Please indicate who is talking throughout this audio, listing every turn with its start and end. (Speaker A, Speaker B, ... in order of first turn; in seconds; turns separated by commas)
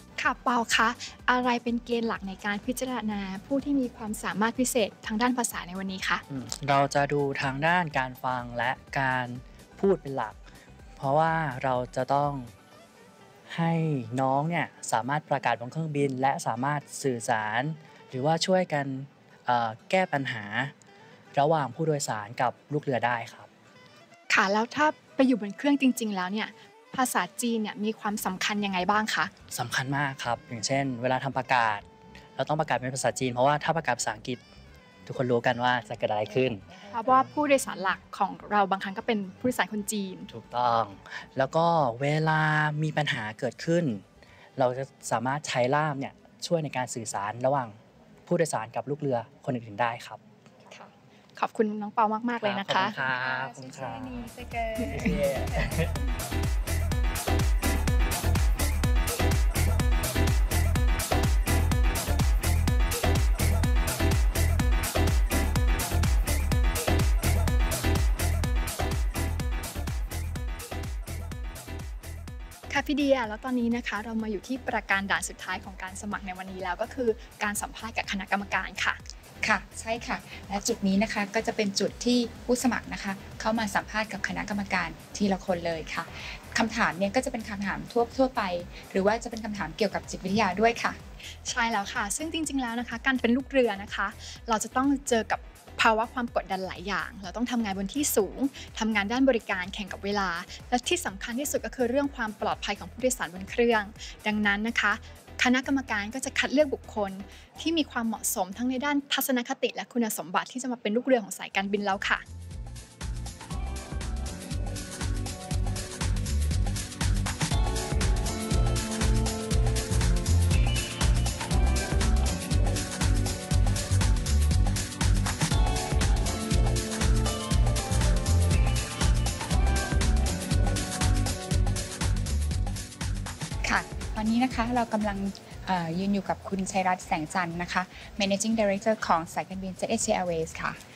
Speaker A: 0.2-6.2, Speaker B: 6.3-10.4, Speaker B: 11.0-12.5, Speaker B: 13.5-20.7, Speaker B: 21.3-23.5, Speaker A: 24.3-29.3, Speaker B: 29.5-31.8, Speaker B: 32.4-34.4, Speaker B: 35.0-37.4, Speaker A: 36.9-40.3, Speaker B: 40.3-44.0, Speaker B: 44.6-50.2, Speaker A: 50.7-55.8, Speaker B: 52.4-54.3, Speaker B: 54.8-56.0, Speaker A: 72.7-79.0, Speaker C: 79.4-91.0, Speaker A: 91.3-112.2, Speaker C: 133.6-140.8